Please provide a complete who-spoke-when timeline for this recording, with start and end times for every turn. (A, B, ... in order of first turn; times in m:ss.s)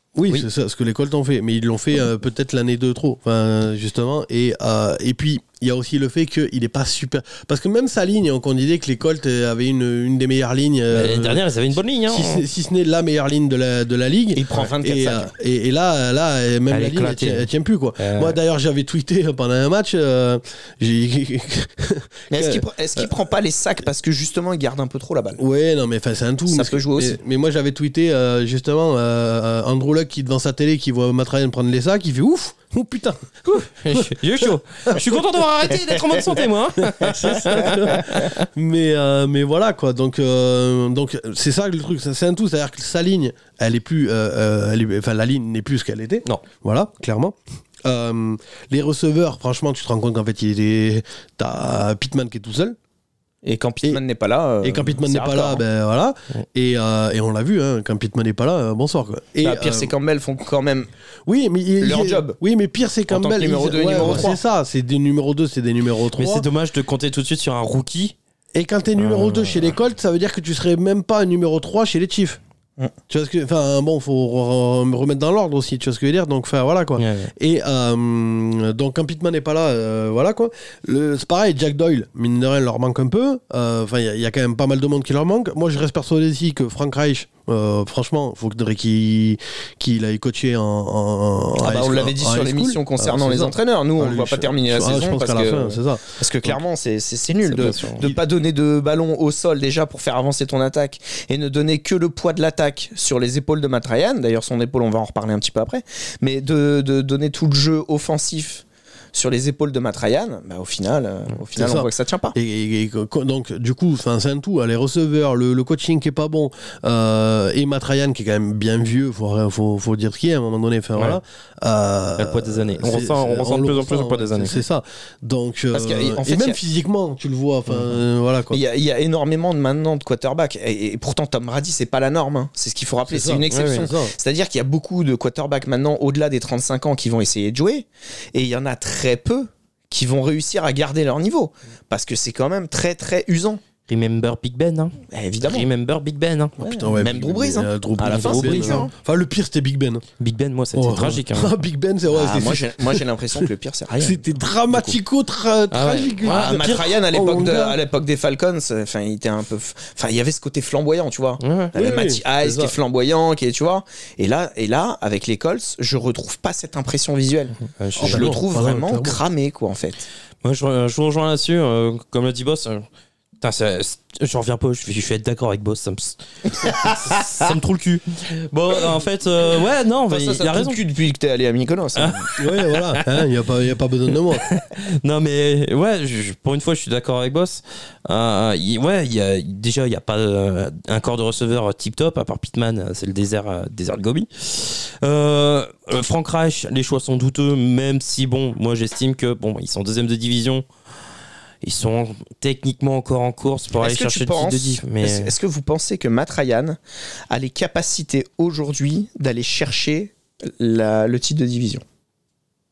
0:00.2-0:11.4 A
0:10.9-0:12.4 B
0:12.1-0:23.1 A
0:14.3-0:15.3 C
0:16.7-0:18.4 B
0:22.3-0:25.4 C
0:25.4-0:35.0 A
0:26.5-0:27.2 C
0:33.4-0:38.4 B
0:35.9-0:36.3 C
0:36.8-0:52.8 A
0:53.4-0:55.6 C
0:54.6-0:59.9 A
0:59.4-1:00.9 C
1:01.3-1:06.4 A
1:01.8-1:02.4 C
1:03.1-1:04.4 C
1:06.2-1:08.2 B
1:08.5-1:12.4 A
1:09.0-1:09.7 B
1:13.1-1:36.6 A
1:17.0-1:17.3 B
1:31.6-1:52.4 C
1:37.4-1:38.1 B
1:51.6-2:08.6 A
2:02.2-2:04.5 B
2:05.7-2:06.6 C
2:08.5-2:23.6 C
2:13.0-2:14.1 A
2:13.5-2:13.9 B
2:23.9-2:26.5 B
2:25.1-2:25.7 C
2:26.6-2:30.0 A
2:26.6-2:28.9 C
2:28.1-2:28.9 B
2:30.2-2:31.5 B
2:30.7-2:33.4 A
2:32.1-2:35.0 C
2:34.0-2:37.8 A
2:35.7-2:37.0 B
2:36.2-2:50.1 C
2:41.4-2:41.7 B
2:41.7-2:42.7 A
2:47.8-2:48.4 B
2:48.0-2:49.2 A
2:50.4-2:52.8 B
2:53.4-3:00.8 B
2:56.5-2:57.5 C
3:00.1-3:02.3 C
3:02.0-3:03.3 B
3:02.4-3:04.5 A
3:04.4-3:20.6 B
3:21.6-3:25.3 B
3:23.8-3:26.8 C
3:27.3-3:31.8 C